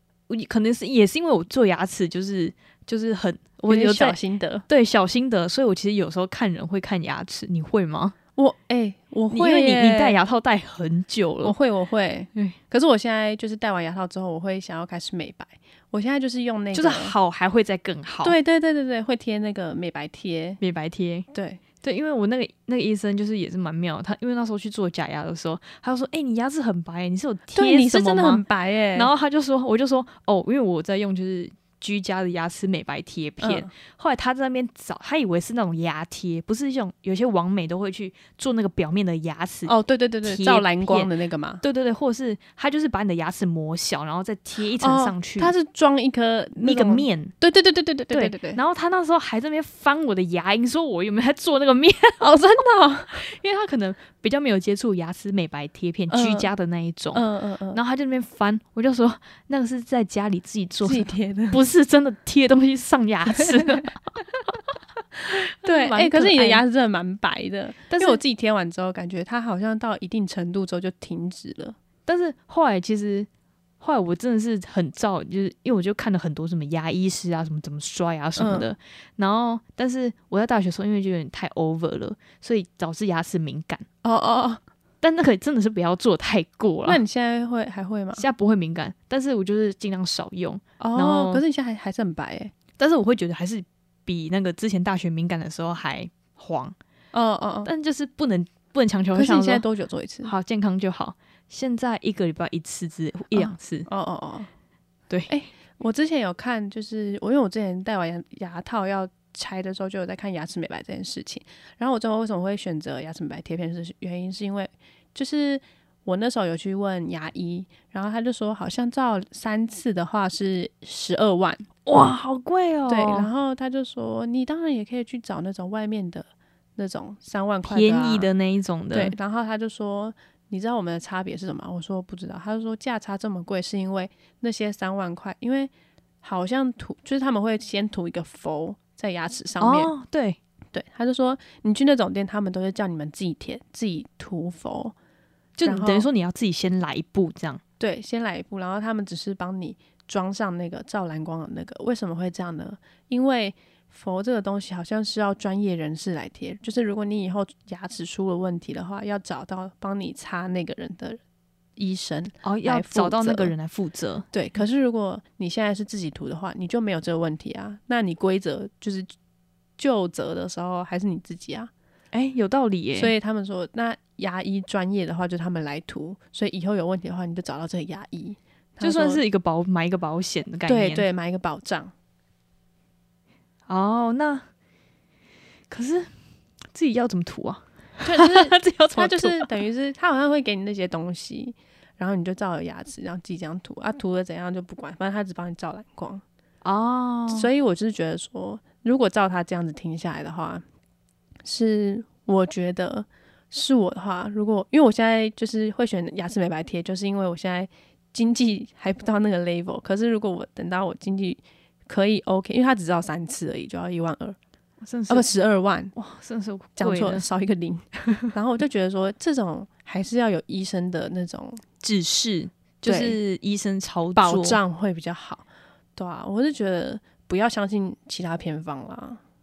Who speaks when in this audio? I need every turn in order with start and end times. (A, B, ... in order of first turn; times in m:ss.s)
0:00.3-0:04.2 A
0:03.7-0:04.6 B
0:04.7-0:08.1 A
0:08.4-0:10.2 B
0:09.3-0:11.5 A
0:11.4-0:17.1 B
0:16.7-0:18.3 A
0:18.2-0:20.6 B
0:20.6-0:21.3 A
0:21.3-0:21.6 B
0:21.8-0:28.4 A
0:27.5-0:29.1 B
0:28.9-0:39.7 A
0:33.4-0:33.7 B
0:39.7-0:41.6 B
0:40.2-0:41.1 A
0:41.6-0:45.5 A
0:44.8-0:48.6 B
0:46.6-0:47.3 A
0:48.1-0:52.3 A
0:52.2-0:53.2 B
0:53.1-1:04.0 A
0:56.1-0:56.5 B
0:57.1-0:57.8 B
1:00.8-1:01.6 B
1:05.2-1:11.8 B
1:05.3-1:06.6 A
1:07.9-1:08.2 A
1:12.0-1:13.3 A
1:13.8-1:23.8 A
1:18.4-1:18.7 B
1:24.0-1:24.6 B
1:25.0-1:27.0 A
1:26.8-1:28.2 B
1:28.2-1:31.4 A
1:30.8-1:32.5 B
1:32.8-1:36.7 A
1:37.1-1:37.7 B
1:37.6-1:39.6 A
1:39.1-1:40.3 B
1:40.2-1:43.9 A
1:43.3-1:44.5 B
1:45.3-2:01.6 B
2:01.8-2:03.3 A
2:02.9-2:08.3 B
2:07.7-2:09.2 A
2:08.9-2:15.7 B
2:16.2-2:19.9 B
2:19.6-2:20.4 A
2:20.7-2:24.9 B
2:25.6-2:27.6 A
2:25.6-2:26.1 B
2:27.8-2:41.2 B
2:41.8-2:43.5 B
2:42.4-2:44.3 A
2:44.3-2:49.1 B
2:49.8-2:51.7 B
2:52.1-2:53.1 A
2:53.0-2:59.2 B
2:58.8-3:01.0 A
3:00.6-3:01.9 B
3:03.7-3:04.4 A
3:05.7-3:06.1 A
3:06.7-3:09.5 A
3:08.0-3:16.2 B
3:16.6-3:17.5 A
3:17.3-3:20.6 B
3:21.4-3:34.4 B
3:34.8-3:35.3 A
3:35.1-3:35.9 B
3:35.9-3:37.2 A
3:36.8-3:41.6 B
3:41.8-3:44.6 A
3:42.8-3:43.2 B
3:44.2-3:45.4 B
3:46.0-3:49.2 B